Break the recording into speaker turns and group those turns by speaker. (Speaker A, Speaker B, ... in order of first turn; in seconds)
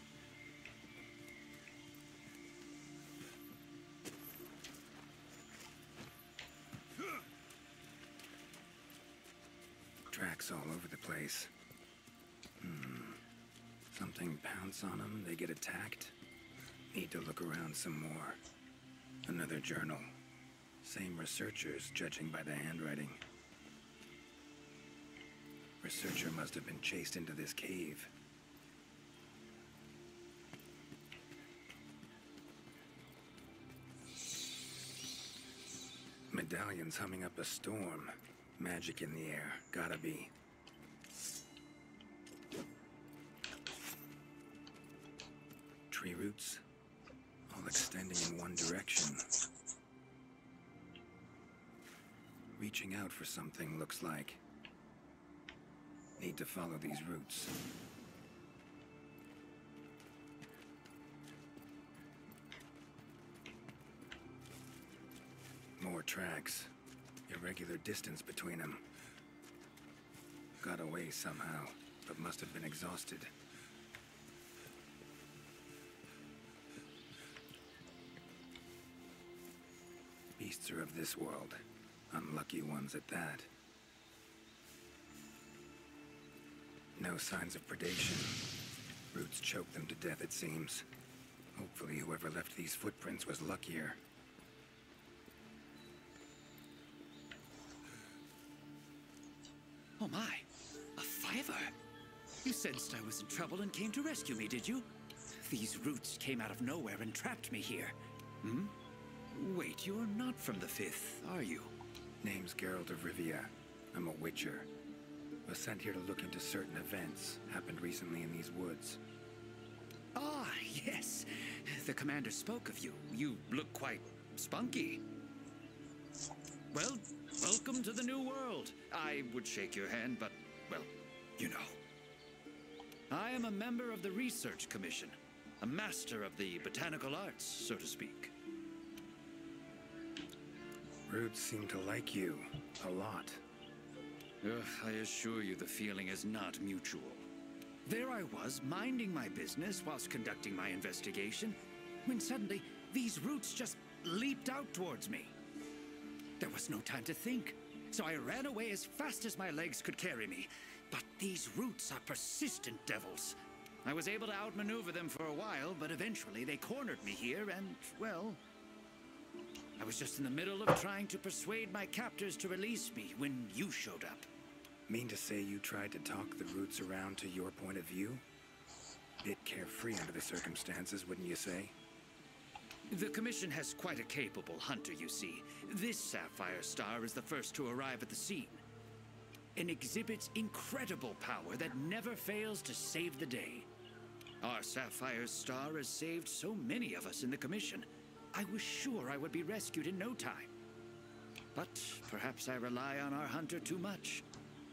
Speaker A: 10.1-11.5, 12.6-13.2, 13.9-16.1, 16.9-18.4, 19.2-20.1, 20.8-23.2, 25.8-28.1, 36.3-40.3, 45.9-46.6, 47.5-49.3, 52.5-54.4, 56.2-57.5, 65.8-66.7, 67.3-68.8, 70.6-73.3, 80.4-83.5, 87.0-88.4, 89.1-90.9, 91.5-94.0, 112.2-114.7, 115.4-119.0, 141.1-143.4, 174.9-178.2, 179.2-181.7
Speaker B: 100.0-101.7, 102.4-108.7, 109.3-111.7, 120.1-125.0, 126.7-131.8, 133.1-138.3, 144.4-147.2, 147.8-155.3, 156.4-168.4, 169.8-174.3, 182.9-188.6, 189.6-193.7, 194.4-200.5, 201.5-204.2